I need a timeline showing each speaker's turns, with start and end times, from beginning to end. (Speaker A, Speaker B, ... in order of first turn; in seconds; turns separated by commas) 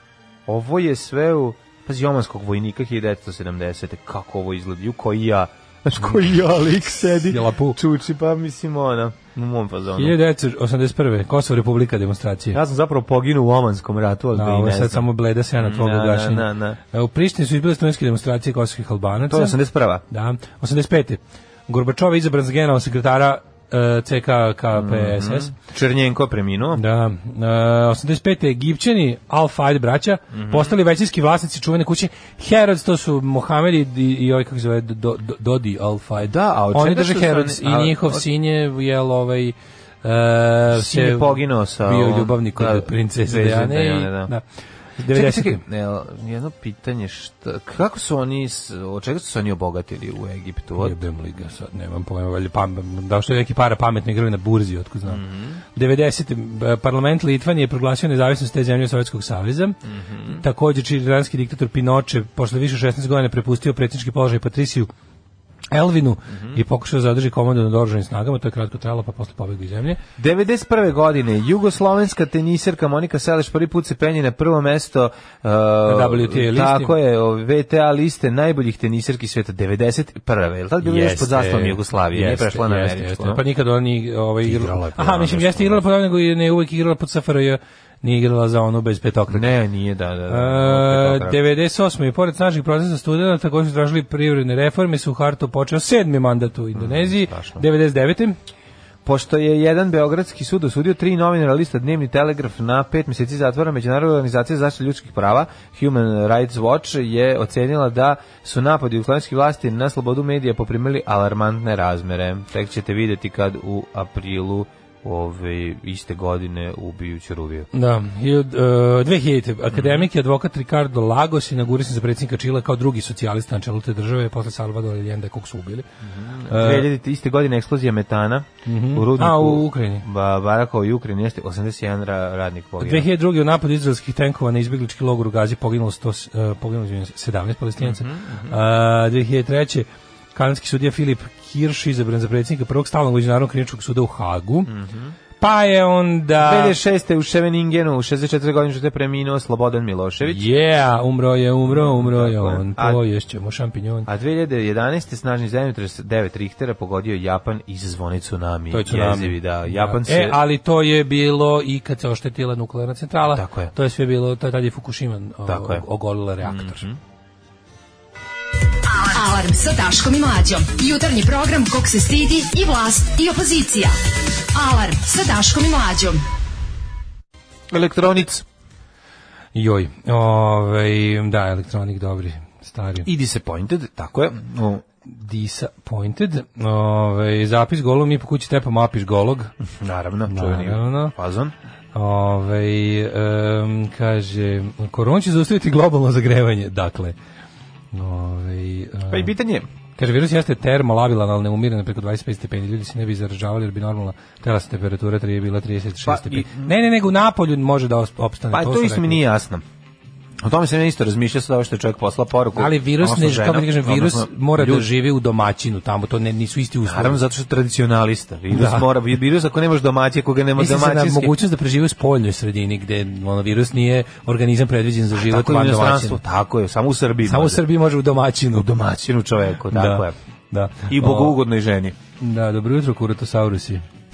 Speaker A: 0.5-10.2, Speaker B: 7.3-7.8, Speaker B: 9.9-12.6, Speaker A: 12.5-16.8, Speaker B: 14.3-19.6, Speaker A: 19.3-20.0, Speaker B: 20.1-25.5, Speaker A: 24.7-26.8, Speaker B: 26.7-44.4, Speaker A: 30.3-30.8, Speaker A: 36.2-38.2, Speaker A: 40.7-44.3, Speaker B: 45.0-45.6, Speaker A: 45.1-51.0, Speaker B: 50.8-55.2, Speaker A: 55.1-55.6, Speaker B: 55.8-59.8, Speaker A: 59.9-60.4, Speaker B: 60.3-64.9, Speaker B: 65.7-70.0, Speaker A: 66.3-66.6, Speaker A: 70.2-83.4, Speaker B: 75.9-76.9, Speaker B: 80.8-89.5, Speaker A: 84.4-85.8, Speaker A: 89.3-91.4, Speaker B: 90.3-98.4, Speaker A: 96.8-97.7, Speaker A: 99.0-117.7, Speaker B: 117.7-125.9, Speaker A: 119.7-120.1, Speaker A: 126.0-133.1, Speaker B: 126.5-126.9, Speaker B: 128.7-130.1, Speaker B: 132.8-144.7, Speaker A: 137.8-138.6, Speaker A: 144.7-145.2, Speaker B: 145.4-146.8, Speaker A: 146.4-150.5, Speaker B: 150.3-154.1, Speaker A: 151.6-153.0, Speaker A: 154.1-160.4, Speaker B: 158.7-166.8, Speaker A: 163.3-163.7, Speaker A: 165.4-165.8, Speaker A: 166.4-167.0, Speaker C: 168.9-174.0, Speaker C: 174.5-176.2, Speaker A: 177.7-178.4, Speaker B: 179.6-183.1, Speaker A: 183.1-184.8, Speaker B: 185.1-189.5, Speaker A: 189.8-191.5, Speaker B: 190.3-191.2, Speaker B: 191.9-197.2, Speaker B: 197.9-199.3, Speaker A: 199.1-199.7, Speaker B: 200.0-209.2, Speaker A: 206.1-206.7, Speaker A: 208.5-209.7, Speaker A: 210.4-214.9, Speaker B: 212.6-217.2, Speaker A: 216.8-221.4, Speaker B: 218.5-218.9, Speaker B: 220.6-226.2, Speaker A: 225.2-227.6, Speaker B: 227.3-229.0, Speaker A: 228.8-230.2, Speaker B: 229.7-231.4, Speaker A: 230.9-232.0, Speaker B: 232.2-233.8